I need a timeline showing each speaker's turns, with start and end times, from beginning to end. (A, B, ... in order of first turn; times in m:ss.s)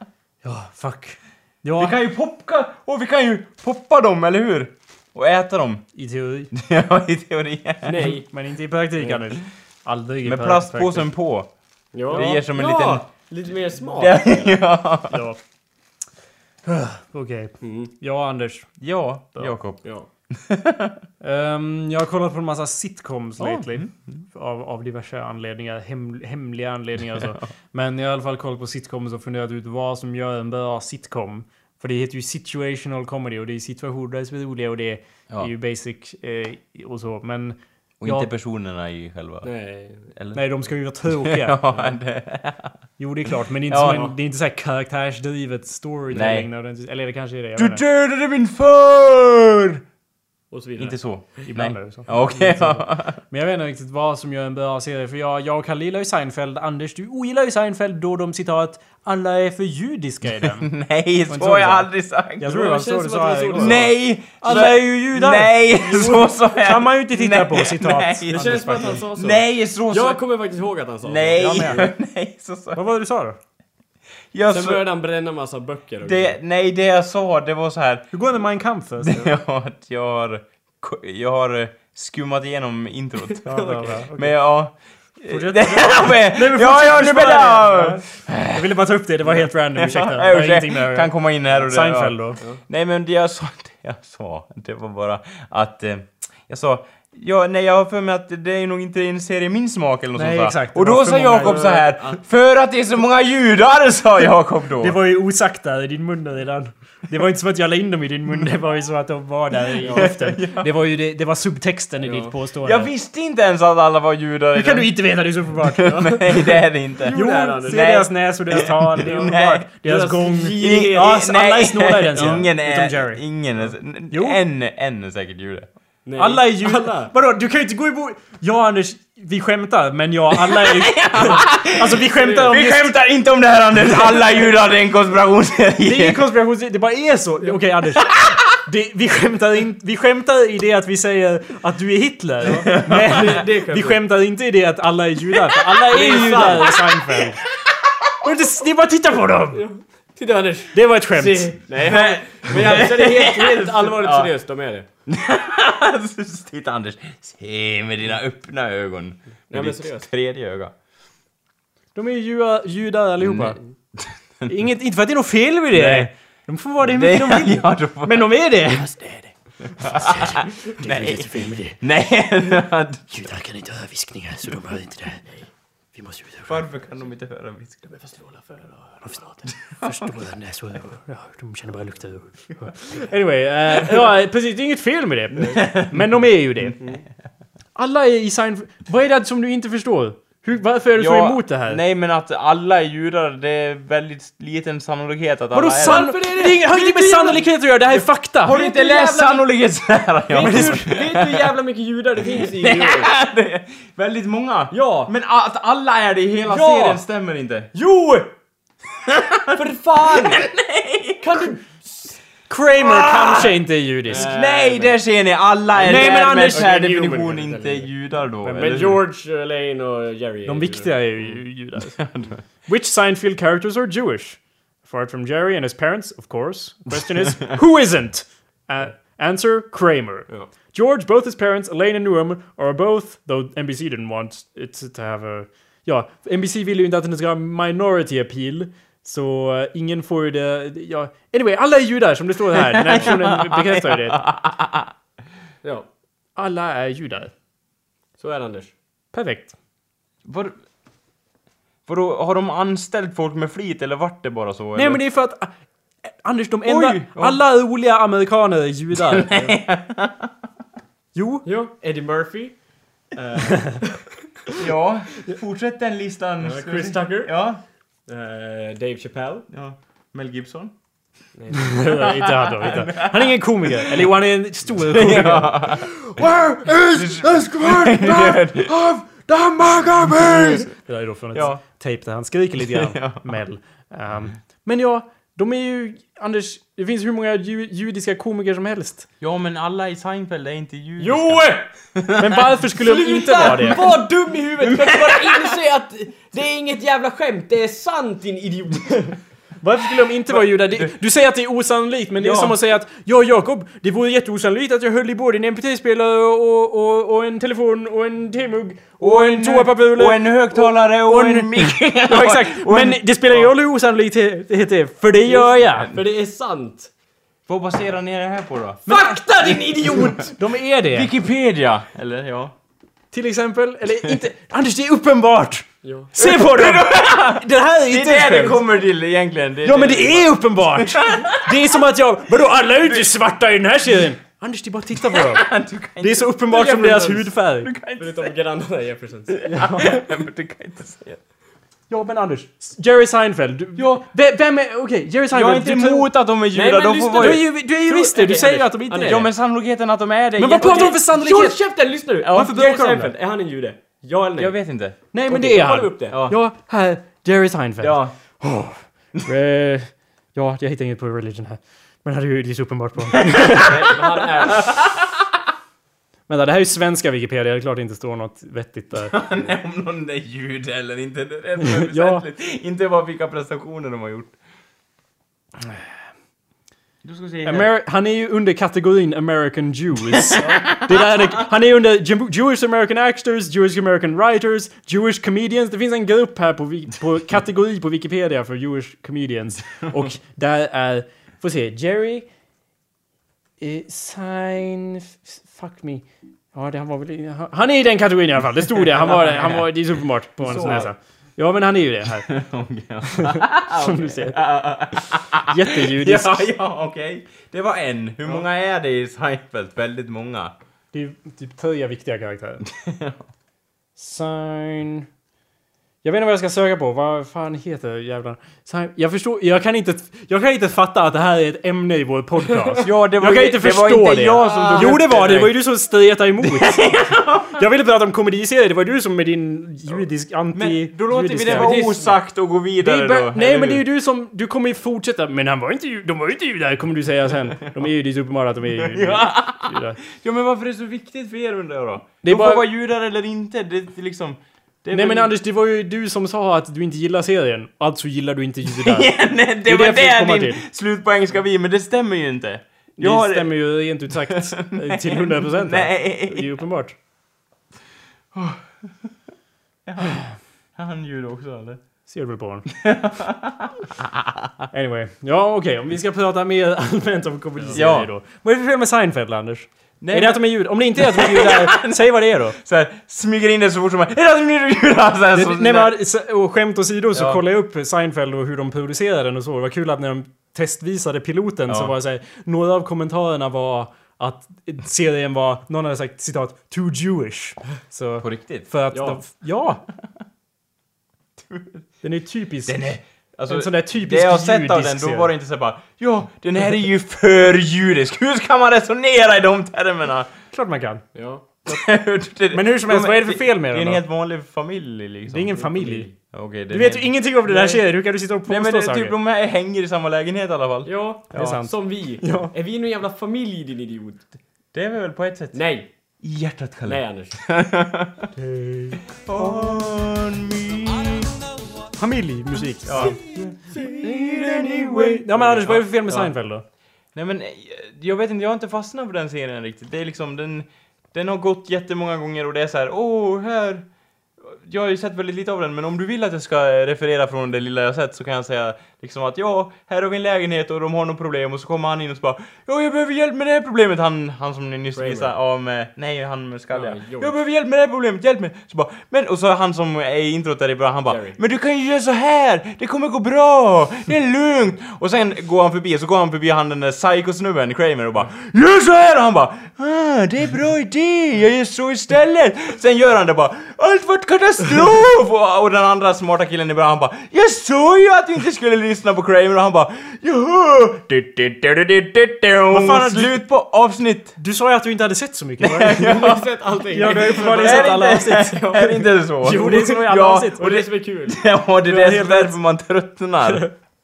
0:00.4-0:02.0 A
0:01.8-0:05.8 B
0:05.9-0:06.5 A
0:06.5-0:08.2 B
0:07.8-0:08.3 C
0:08.0-0:11.1 A
0:10.2-0:13.1 B
0:11.9-0:14.5 C
0:12.1-0:12.4 A
0:13.8-0:15.2 B
0:15.1-0:15.4 A
0:16.6-0:19.6 A
0:17.6-0:17.9 C
0:18.8-0:21.0 B
0:19.8-0:20.1 C
0:21.2-0:38.3 A
0:23.4-0:24.2 B
0:38.0-0:39.5 B
0:39.4-0:40.1 C
0:40.1-0:42.8 B
0:40.3-0:41.6 A
0:43.0-0:47.8 A
0:43.7-0:44.1 B
0:43.8-0:44.1 C
0:46.1-0:46.5 B
0:47.6-0:49.8 B
0:50.5-0:51.5 C
0:50.8-0:53.2 B
0:51.4-1:00.7 A
0:52.1-0:52.5 C
1:00.6-1:02.5 B
1:01.2-1:09.0 A
1:02.4-1:04.7 C
1:03.5-1:10.2 B
1:08.3-1:11.9 C
1:11.0-1:12.8 B
1:11.4-1:11.8 A
1:12.7-1:13.4 A
1:14.3-1:14.8 B
1:14.5-1:16.4 C
1:16.0-1:18.2 B
1:18.1-1:19.2 A
1:19.0-1:45.0 B
1:23.4-1:24.0 C
1:23.5-1:32.4 A
1:40.1-1:41.8 A
1:41.4-1:42.2 C
1:44.8-1:52.9 A
1:49.8-1:50.1 C
1:49.8-1:50.7 B
1:52.0-1:52.3 C
1:52.6-1:59.7 B
1:54.5-1:56.2 A
1:55.8-1:58.1 C
1:57.1-2:04.4 A
1:59.0-1:59.2 C
1:59.8-2:01.1 C
2:00.6-2:05.7 B
2:02.1-2:02.5 C
2:06.0-2:07.1 C
2:06.2-2:12.9 A
2:10.4-2:16.2 B
2:12.2-2:12.6 C
2:15.8-2:27.4 A
2:18.0-2:18.4 B
2:22.6-2:24.0 C
2:22.6-2:23.2 B
2:25.9-2:26.9 B
2:25.9-2:26.8 C
2:28.2-2:29.6 A
2:29.5-2:34.8 C
2:30.7-2:31.7 A
2:31.8-2:34.3 B
2:35.1-2:40.7 B
2:39.5-2:40.1 C
2:41.9-2:43.6 A
2:43.2-2:44.5 B
2:44.5-2:51.8 A
2:45.7-2:46.1 B
2:46.8-2:49.2 B
2:49.8-2:53.1 B
2:53.1-2:56.5 A
2:56.5-2:58.5 B
2:59.0-3:06.8 A
2:59.4-2:59.7 B
3:05.5-3:06.2 B
3:06.8-3:07.0 C
3:07.7-3:11.8 A
3:10.9-3:16.1 B
3:15.5-3:18.6 A
3:15.7-3:23.1 C
3:18.4-3:21.4 B
3:20.4-3:20.9 A
3:22.5-3:27.7 B
3:24.7-3:25.1 C
3:26.5-3:27.0 C
3:27.7-3:28.3 C
3:29.1-3:31.5 B
3:29.5-3:30.5 C
3:31.2-3:32.2 C
3:32.5-3:34.3 A
3:32.8-3:33.5 B
3:34.1-3:35.2 C
3:34.1-3:39.0 B
3:35.7-3:41.4 C
3:35.8-3:36.8 A
3:38.4-3:39.0 A
3:40.4-4:04.2 A
3:42.0-3:42.4 B
4:02.5-4:04.9 B
4:06.4-4:07.3 A
4:08.2-4:08.7 C
4:09.1-4:09.5 A
4:10.2-4:10.6 B
4:11.8-4:15.0 B
4:14.7-4:19.3 A
4:16.6-4:17.4 B
4:19.1-4:20.3 B
4:19.3-4:19.6 C
4:21.1-4:21.4 A
4:21.4-4:24.0 C
4:24.6-4:27.6 B
4:26.4-4:29.5 C
4:29.5-4:30.7 B
4:31.3-4:32.0 C
4:31.7-4:38.6 A
4:32.0-4:34.0 B
4:34.8-4:36.0 B
4:36.9-4:40.7 B
4:39.5-4:49.1 A
4:41.3-4:41.6 B
4:42.6-4:43.3 B
4:49.2-4:52.2 B
4:51.0-4:51.7 C
4:52.2-4:53.8 A
4:52.8-4:59.2 C
4:53.5-4:53.8 B
4:54.8-4:55.3 B
4:59.6-5:15.9 A
5:00.3-5:00.9 B
5:02.2-5:02.6 B
5:09.0-5:13.4 B
5:15.3-5:16.9 C
5:17.5-5:18.8 B
5:18.8-5:21.1 A
5:18.9-5:20.3 C
5:20.9-5:22.5 B
5:23.1-5:28.6 A
5:25.8-5:26.1 C
5:26.2-5:31.4 B
5:29.6-5:37.7 A
5:32.8-5:33.1 B
5:35.1-5:38.3 B
5:36.6-5:37.2 C
5:38.0-5:39.4 C
5:39.3-5:41.2 B
5:39.4-5:40.0 A
5:41.9-5:46.1 A
5:43.8-5:44.0 B
5:45.3-5:51.0 B
5:46.5-5:48.6 C
5:47.2-5:49.3 A
5:50.4-5:51.6 A
5:50.6-5:56.2 C
5:52.2-5:52.6 B
5:52.3-5:53.1 A
5:54.4-5:55.0 B
5:55.1-6:03.7 A
5:56.1-5:56.4 B
5:57.8-5:58.1 B
6:03.6-6:04.7 C
6:04.6-6:05.0 B
6:06.3-6:09.2 A
6:09.1-6:14.4 B
6:11.7-6:12.2 A
6:17.0-6:17.7 B
6:17.4-6:32.3 A
6:33.6-6:42.4 A
6:39.0-6:39.8 B
6:40.4-6:40.9 B
6:40.5-6:40.9 C
6:42.3-6:50.6 B
6:43.3-6:44.4 A
6:45.5-6:46.5 A
6:50.9-6:52.6 A
6:52.7-6:53.2 B
6:54.0-6:55.1 A
6:56.0-7:11.9 A
7:02.8-7:05.6 B
7:04.4-7:05.1 C
7:06.4-7:07.6 B
7:10.5-7:13.8 B
7:11.4-7:12.2 C
7:12.8-7:20.0 A
7:18.8-7:25.3 B
7:22.2-7:22.6 A
7:24.9-7:30.6 A
7:28.7-7:36.6 B
7:33.0-7:37.0 A
7:38.3-7:39.1 B
7:39.8-7:41.8 B
7:42.0-7:42.7 A
7:42.7-7:43.8 B
7:44.7-7:52.6 A
7:47.7-7:48.1 B
7:50.0-7:52.0 B
7:52.6-7:56.0 B
7:55.3-8:09.8 A
7:57.1-7:57.4 B
8:01.7-8:01.9 B
8:08.2-8:08.7 B
8:08.9-8:09.2 C
8:11.4-8:11.8 B
8:12.0-8:12.9 A
8:12.6-8:20.3 B
8:13.5-8:15.3 A
8:20.5-8:21.0 A
8:21.1-8:21.4 C
8:21.6-8:25.6 B
8:22.5-8:24.0 A
8:25.3-8:26.1 A
8:25.6-8:26.1 C
8:26.2-8:27.8 B
8:26.7-8:29.1 A
8:28.5-8:31.6 B
8:30.8-8:34.3 C
8:31.3-8:32.5 A
8:34.7-8:35.6 B
8:35.5-8:35.9 C
8:36.2-8:38.3 B
8:36.8-8:37.4 C
8:38.4-8:39.8 A
8:39.2-8:41.3 B
8:42.0-8:43.2 A
8:42.8-8:46.3 B
8:43.7-8:46.6 A
8:47.1-9:34.4 B
9:04.9-9:05.3 C
9:06.7-9:07.3 C
9:11.1-9:11.4 C
9:32.7-9:33.5 A
9:34.4-9:36.1 A
9:35.6-9:43.6 B
9:36.0-9:41.4 C
9:36.9-9:38.8 A
9:39.4-9:40.7 A
9:41.8-9:42.6 A